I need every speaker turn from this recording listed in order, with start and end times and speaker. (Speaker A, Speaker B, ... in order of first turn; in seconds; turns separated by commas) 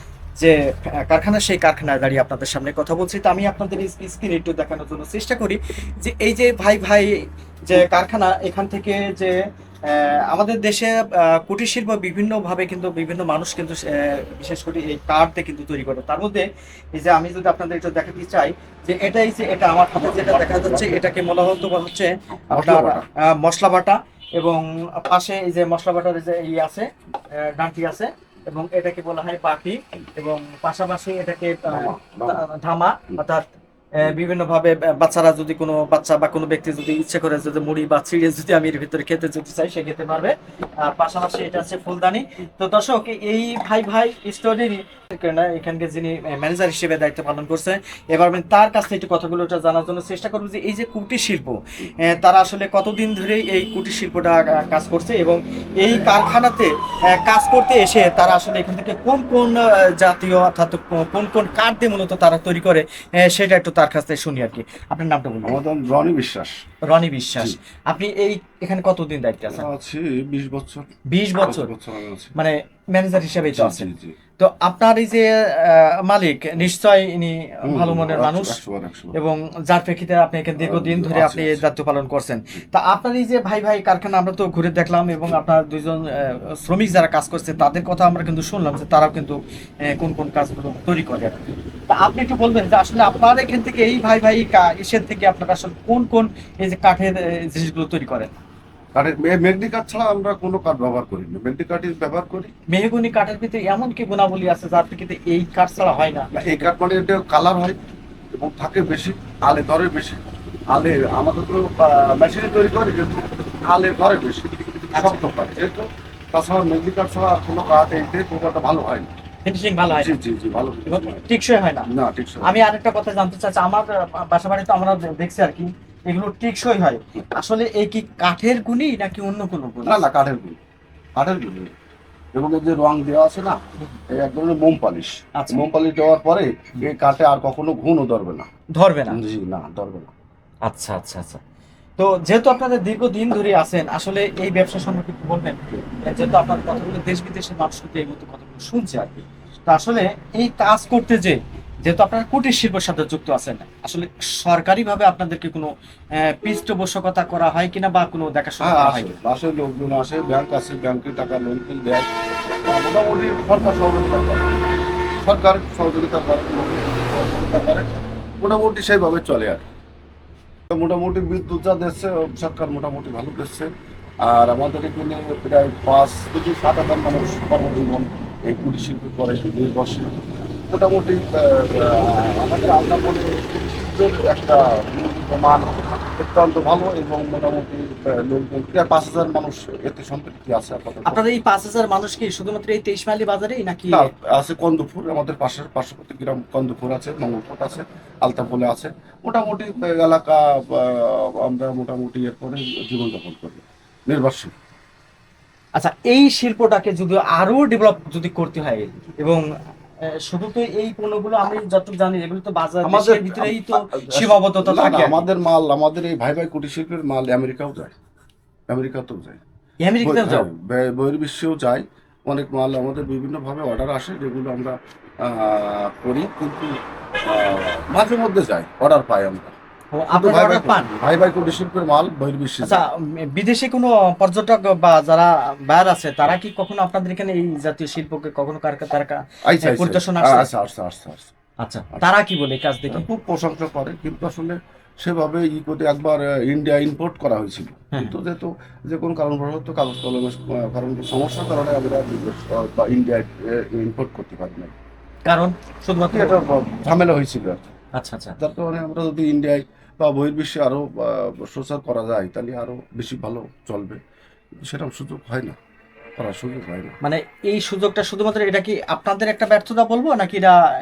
Speaker A: 0.4-33.4, Speaker B: 22.3-23.1, Speaker B: 31.7-32.4, Speaker A: 34.0-65.6, Speaker B: 65.4-66.6, Speaker A: 66.8-69.6, Speaker B: 69.5-70.9, Speaker A: 71.1-71.7, Speaker B: 71.4-72.4, Speaker A: 72.3-78.6, Speaker B: 73.5-74.2, Speaker B: 77.6-79.2, Speaker A: 79.1-98.3, Speaker B: 80.6-81.6, Speaker B: 98.9-102.5, Speaker A: 102.7-106.3, Speaker B: 106.3-107.8, Speaker B: 108.3-119.1, Speaker A: 114.9-115.2, Speaker A: 119.4-120.1, Speaker B: 119.9-121.3, Speaker A: 120.9-121.9, Speaker B: 121.9-122.5, Speaker A: 122.4-130.0, Speaker B: 129.8-130.6, Speaker B: 131.2-131.7, Speaker B: 132.3-133.6, Speaker B: 134.1-138.5, Speaker A: 135.3-135.6, Speaker A: 138.8-139.2, Speaker B: 139.1-140.1, Speaker A: 140.6-141.4, Speaker A: 142.0-159.2, Speaker B: 158.6-162.1, Speaker B: 162.6-164.5, Speaker B: 165.2-167.8, Speaker B: 168.4-169.6, Speaker B: 170.7-191.2, Speaker A: 191.1-194.1, Speaker B: 193.9-204.5, Speaker A: 205.8-209.4, Speaker A: 210.1-215.2, Speaker B: 212.8-217.9, Speaker B: 218.7-219.4, Speaker A: 219.8-220.5, Speaker B: 220.0-229.6, Speaker A: 229.9-230.9, Speaker B: 230.1-232.8, Speaker A: 232.6-240.5, Speaker B: 239.4-241.3, Speaker A: 241.6-243.1, Speaker B: 242.9-254.7, Speaker A: 255.2-256.4, Speaker B: 256.1-257.7, Speaker A: 257.9-258.4, Speaker B: 258.4-264.0, Speaker B: 264.6-265.6, Speaker B: 266.2-267.0, Speaker A: 267.0-270.6